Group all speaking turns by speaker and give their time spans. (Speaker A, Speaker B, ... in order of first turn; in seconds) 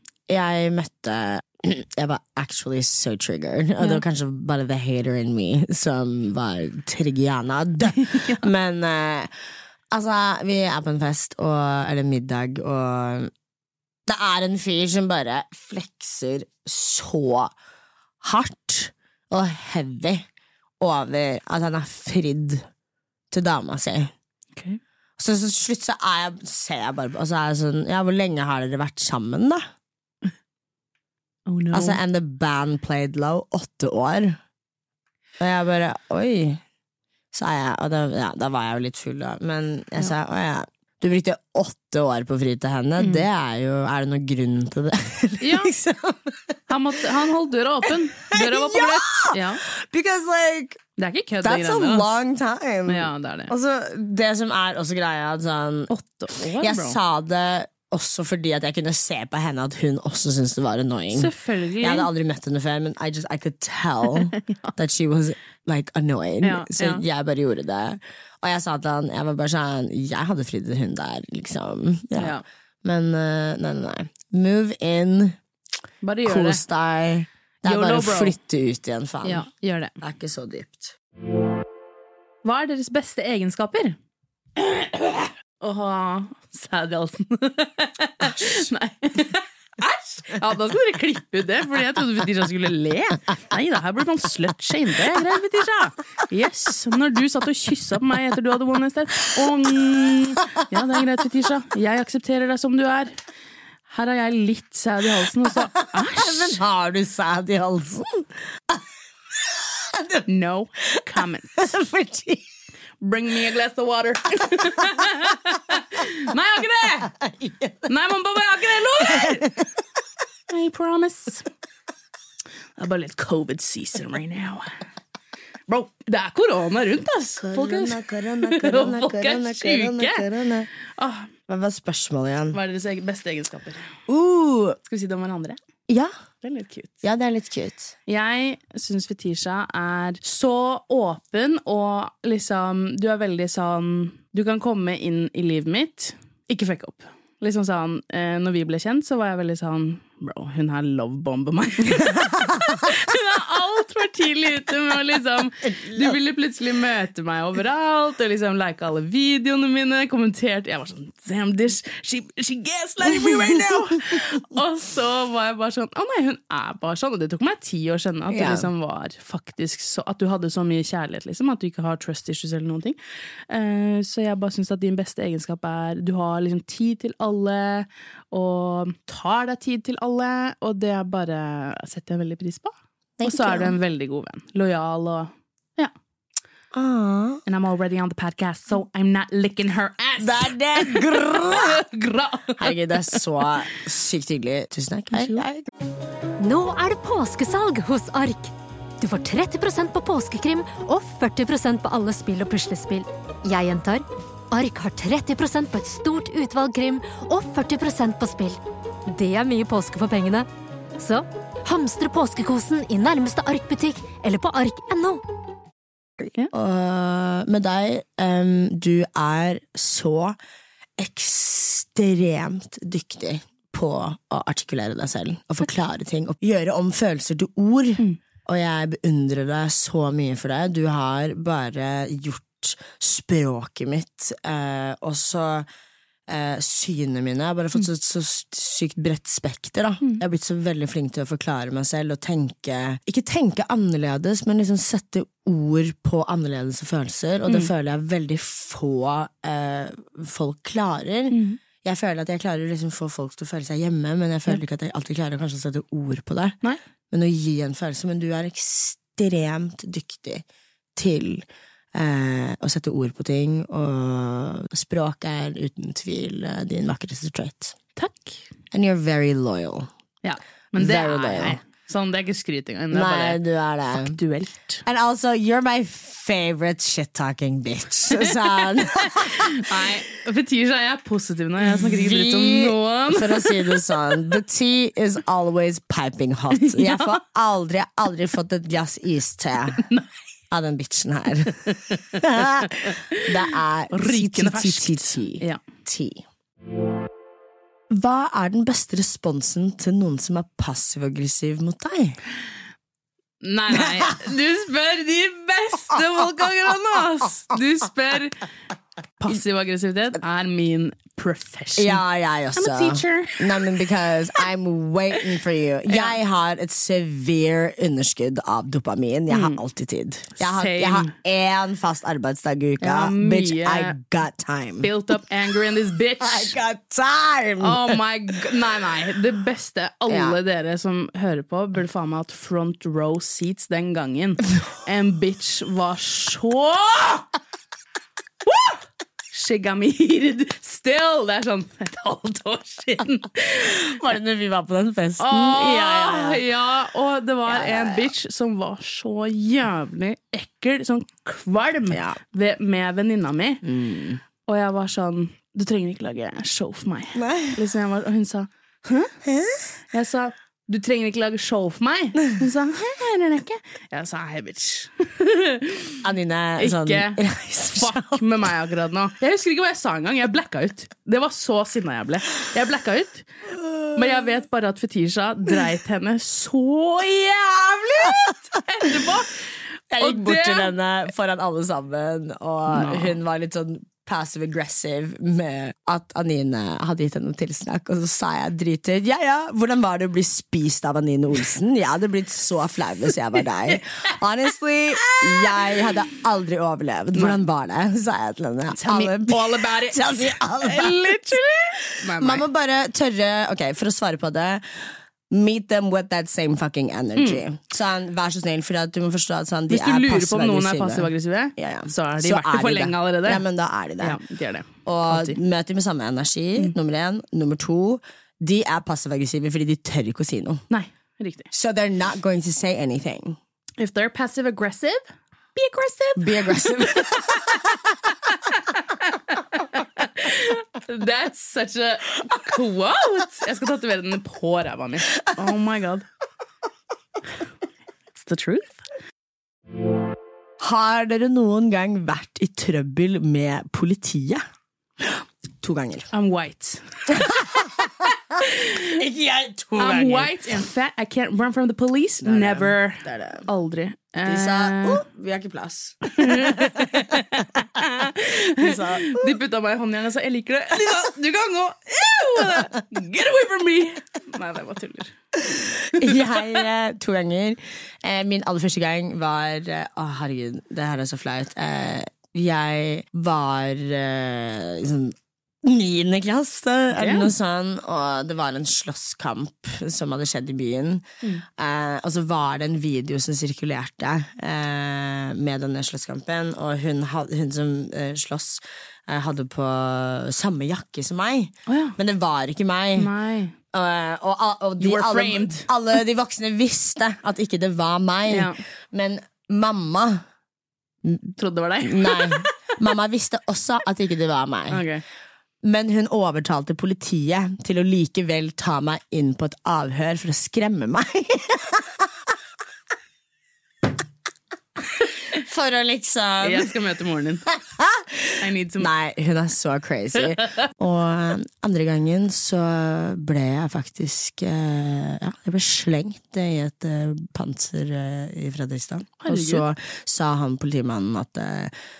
Speaker A: 0.3-9.3, 9.9-13.3, 14.1-17.5, 18.2-20.2, 20.8-22.7, 23.3-24.1, 25.2-29.6, 31.7-34.4, 35.4-36.6, 37.3-46.6, 47.9-50.8, 51.4-75.4, 76.2-79.5, 80.0-81.0, 88.2-88.7, 105.9-108.8, 109.6-110.2, 111.6-112.5, 117.1-117.9, 119.0-119.7, 127.4-130.7, 131.5-132.6, 134.1-134.8, 135.9-136.1, 137.0-137.9, 155.7-156.2, 163.1-164.2, 168.3-168.7, 183.2-183.8, 186.7-187.4, 190.2-191.9, 192.6-195.7, 216.5-220.4, 221.0-235.7, 236.3-256.6, 257.1-260.4, 261.0-267.8, 268.7-269.9, 270.8-271.6, 272.9-274.2, 274.8-279.9, 281.6-289.8, 290.5-296.2, 297.9-302.2, 311.8-324.9, 326.2-328.0, 330.1-330.4, 343.8-346.4, 347.5-348.1, 351.9-352.2, 353.6-354.2, 357.1-357.6, 359.2-359.7, 366.0-368.2, 373.6-373.9, 377.4-378.3, 379.9-401.4, 402.0-414.2, 414.9-420.6, 421.5-423.4, 426.2-427.7, 440.6-444.4, 445.0-446.1, 447.1-450.4, 452.2-453.5, 454.2-457.2, 458.6-459.4, 465.6-493.1, 493.7-500.2, 501.0-504.9, 505.6-512.1, 515.3-516.8, 517.5-531.7
Speaker B: 8.0-8.4, 31.5-32.0, 43.0-43.3, 45.4-45.7, 46.7-49.6, 51.0-52.1, 52.9-53.5, 55.9-57.0, 61.1-62.1, 64.3-64.7, 66.4-67.0, 72.2-72.4, 76.0-76.6, 77.7-78.4, 79.2-80.0, 82.4-84.0, 84.6-103.2, 103.9-106.6, 110.3-111.8, 113.0-117.1, 117.9-119.5, 120.5-121.5, 122.8-124.8, 125.7-130.3, 130.9-131.3, 132.5-134.0, 134.9-135.6, 136.4-137.0, 138.1-173.0, 173.5-185.9, 187.5-193.2, 195.1-195.4, 251.3-251.6, 268.0-268.4, 270.2-274.8, 278.2-283.9, 286.5-287.2, 289.8-290.1, 292.8-293.3, 293.9-295.6, 303.4-308.4, 309.2-312.0, 312.6-313.7, 315.9-316.2, 319.3-319.6, 320.4-321.2, 322.8-324.0, 324.8-326.6, 327.6-337.2, 338.4-343.9, 345.2-353.7, 354.4-359.2, 359.9-366.0, 366.6-373.3, 373.9-380.7, 382.7-383.2, 395.0-395.9, 397.1-397.4, 398.7-402.5, 407.2-407.4, 409.7-413.4, 414.0-415.4, 420.7-421.5, 423.8-425.0, 425.6-427.6, 428.3-436.1, 438.1-438.8, 446.1-447.3, 448.4-448.9, 449.8-455.1, 456.1-465.1, 465.7-466.2, 476.9-477.3, 491.7-492.0, 493.0-493.6, 494.8-495.7, 498.3-498.6, 501.4-502.7, 504.7-505.0, 516.4-517.5, 518.4-518.9, 529.2-529.6
Speaker C: 196.4-215.2